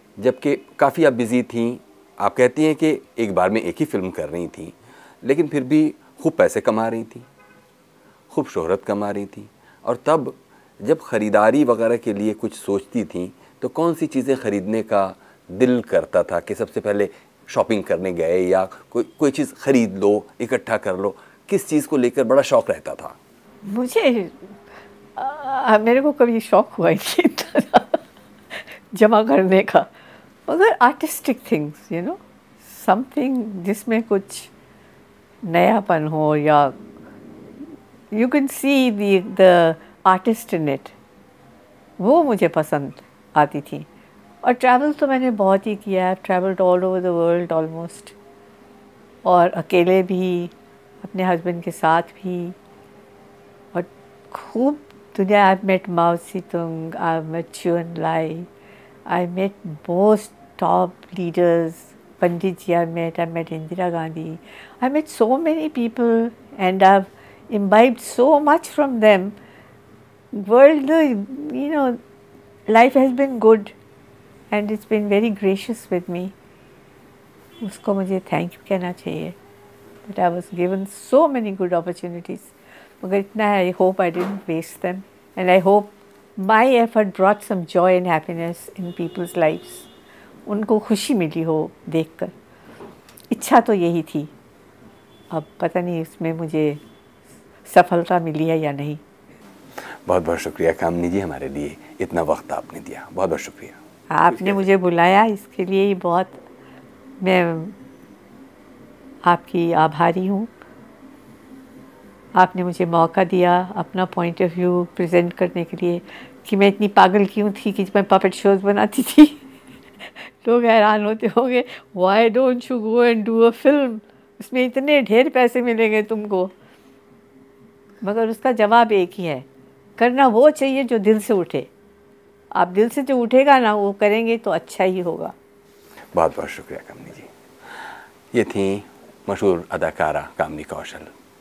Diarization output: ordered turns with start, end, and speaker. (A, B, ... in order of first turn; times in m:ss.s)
0:00.2-0:07.3 A
0:08.3-0:23.2 A
0:23.7-0:24.6 B
0:25.2-0:28.0 B
0:28.5-0:29.9 B
0:30.5-0:34.5 B
0:35.4-0:36.8 B
0:38.1-0:41.0 B
0:42.0-0:43.9 B
0:44.4-0:48.2 B
0:49.2-0:52.6 B
0:53.7-0:58.5 B
0:59.1-1:09.4 B
1:10.3-1:12.0 B
1:12.7-1:13.8 B
1:14.5-1:16.4 B
1:17.6-1:19.4 B
1:20.1-1:29.9 B
1:30.5-1:32.3 B
1:33.3-1:34.3 B
1:35.3-1:36.8 B
1:37.6-1:39.0 B
1:40.0-1:43.8 A
1:44.1-1:46.4 B
1:44.3-1:44.6 A
1:47.2-1:47.8 B
1:49.2-1:50.5 B
1:52.4-1:59.4 B
2:00.2-2:06.5 B
2:08.0-2:09.5 B
2:10.0-2:11.7 B
2:12.6-2:15.4 B
2:16.1-2:21.1 A